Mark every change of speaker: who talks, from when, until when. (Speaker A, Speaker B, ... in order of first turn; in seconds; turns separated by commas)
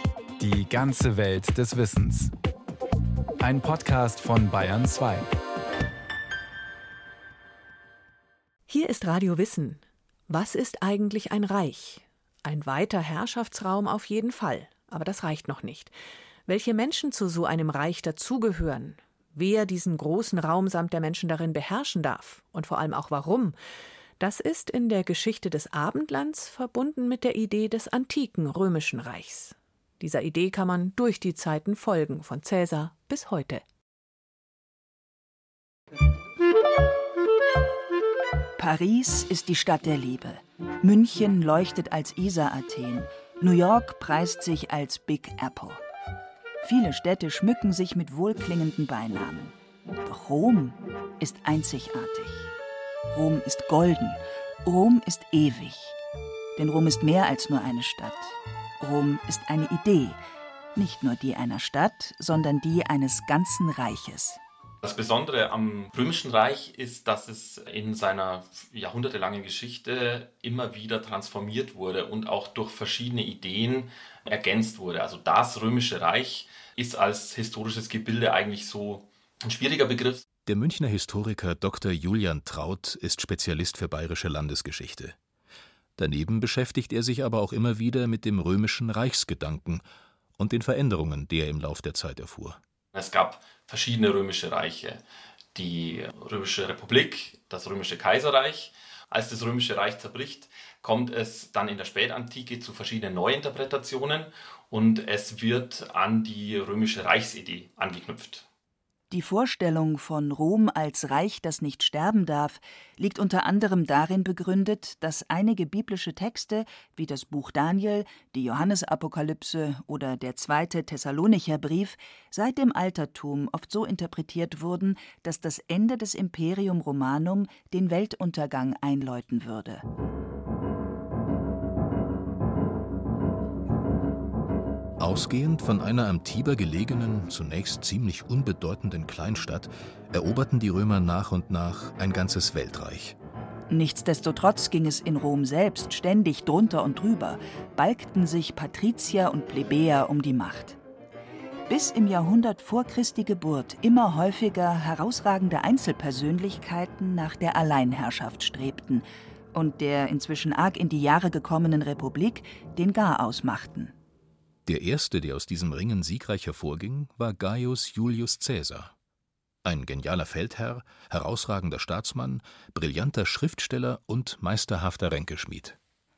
Speaker A: 0.4-2.3, Speaker A: 3.4-5.3, Speaker B: 8.7-15.9, Speaker B: 16.4-23.6, Speaker B: 24.2-33.6, Speaker C: 38.6-45.8, Speaker C: 46.6-52.5, Speaker C: 53.1-56.0, Speaker C: 56.5-60.2, Speaker C: 60.7-64.4, Speaker D: 64.8-80.2, Speaker E: 80.5-85.2, Speaker E: 86.0-89.8, Speaker E: 90.4-92.6, Speaker D: 92.9-95.0, Speaker D: 95.5-108.5, Speaker C: 109.1-129.8, Speaker E: 135.0-143.2, Speaker C: 143.7-150.8, Speaker C: 151.7-163.9, Speaker E: 164.7-168.9, Speaker E: 169.6-175.8